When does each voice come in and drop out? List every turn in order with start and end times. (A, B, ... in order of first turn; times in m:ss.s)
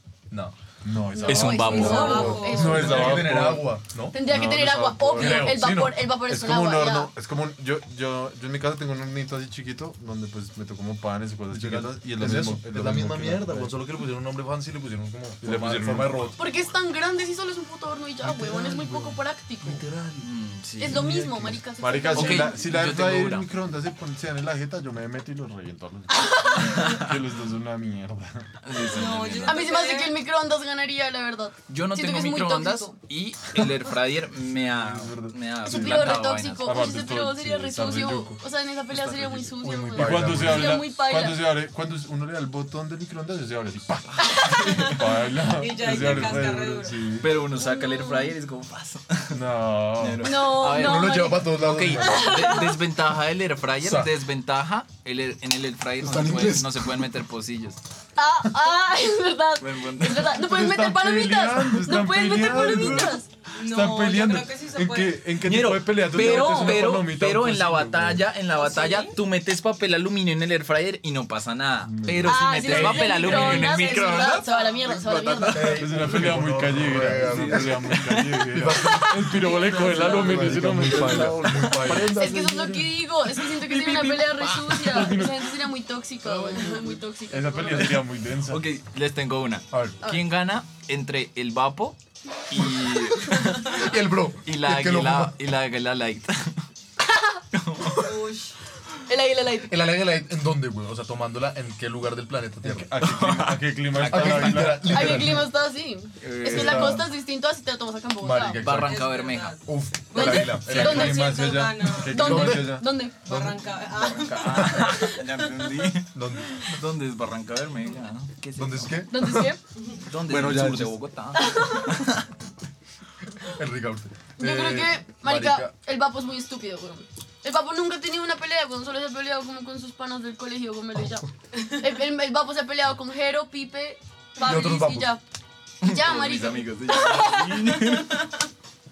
0:00.3-0:00.5 A
0:00.8-0:13.8 B
0:01.1-0:03.3 C
0:01.3-0:02.5 D
0:01.6-0:03.2 E
0:01.7-0:04.2 A
0:04.1-0:07.1 C
0:05.2-0:05.7 A
0:11.5-0:16.4 A
0:15.4-0:16.4 B
0:16.4-0:19.8 C
0:18.2-0:20.3 A
0:20.2-0:21.1 D
0:20.8-0:22.6 C
0:20.8-0:21.6 A
0:21.8-0:28.5 B
0:22.1-0:23.5 D
0:26.1-0:26.8 C
0:26.8-0:27.1 D
0:28.6-0:29.6 D
0:28.8-0:30.2 E
0:29.4-0:33.0 C
0:31.7-0:36.8 D
0:34.5-0:38.4 B
0:35.6-0:41.5 C
0:38.9-0:39.5 D
0:39.6-0:40.8 A
0:39.9-0:44.2 B
0:44.2-0:44.9 C
0:44.5-0:45.0 D
0:44.8-0:47.3 B
0:45.4-0:47.2 E
0:46.1-0:46.3 D
0:47.2-0:49.4 D
0:47.6-0:48.3 C
0:49.3-0:50.3 B
0:50.0-0:57.8 D
0:50.2-0:52.8 C
0:50.6-0:52.5 A
0:53.8-0:54.1 A
0:56.0-0:57.0 A
0:58.2-1:03.3 C
0:59.6-1:00.3 D
1:00.3-1:08.3 B
1:03.5-1:05.3 E
1:05.4-1:16.3 D
1:06.1-1:06.8 A
1:06.2-1:06.7 C
1:08.5-1:09.2 E
1:11.8-1:12.3 B
1:12.2-1:15.7 C
1:12.6-1:14.6 E
1:12.7-1:13.7 A
1:15.5-1:22.1 A
1:15.7-1:22.9 B
1:17.0-1:18.4 D
1:19.0-1:22.6 D
1:22.1-1:28.0 C
1:23.5-1:25.2 D
1:24.6-1:25.5 B
1:26.2-1:27.0 D
1:27.3-1:28.7 B
1:27.7-1:32.0 D
1:29.7-1:30.0 A
1:32.5-1:33.8 D
1:33.4-1:33.8 E
1:33.8-1:35.3 A
1:34.4-1:36.6 D
1:37.5-1:38.1 D
1:37.9-1:38.6 E
1:39.1-1:39.7 C
1:39.7-1:42.9 A
1:42.6-1:45.4 B
1:43.0-1:44.8 D
1:44.0-1:45.5 A
1:44.9-1:48.6 C
1:46.2-1:47.0 D
1:46.4-1:47.1 A
1:48.2-1:49.1 A
1:48.6-1:49.6 D
1:48.7-1:52.5 E
1:49.6-1:51.2 A
1:50.1-1:51.4 C
1:50.4-1:53.5 B
1:52.1-1:52.8 A
1:52.1-1:53.1 C
1:53.2-1:56.0 E
1:53.9-1:59.0 D
1:56.1-1:56.8 A
1:58.6-1:59.5 A
1:59.1-1:59.6 C
1:59.7-2:00.1 E
2:00.0-2:02.2 D
2:00.3-2:00.9 A
2:00.3-2:00.7 B
2:01.4-2:01.9 C
2:03.5-2:05.7 A
2:04.4-2:15.2 C
2:14.4-2:15.1 A
2:15.8-2:17.8 C
2:15.8-2:18.2 D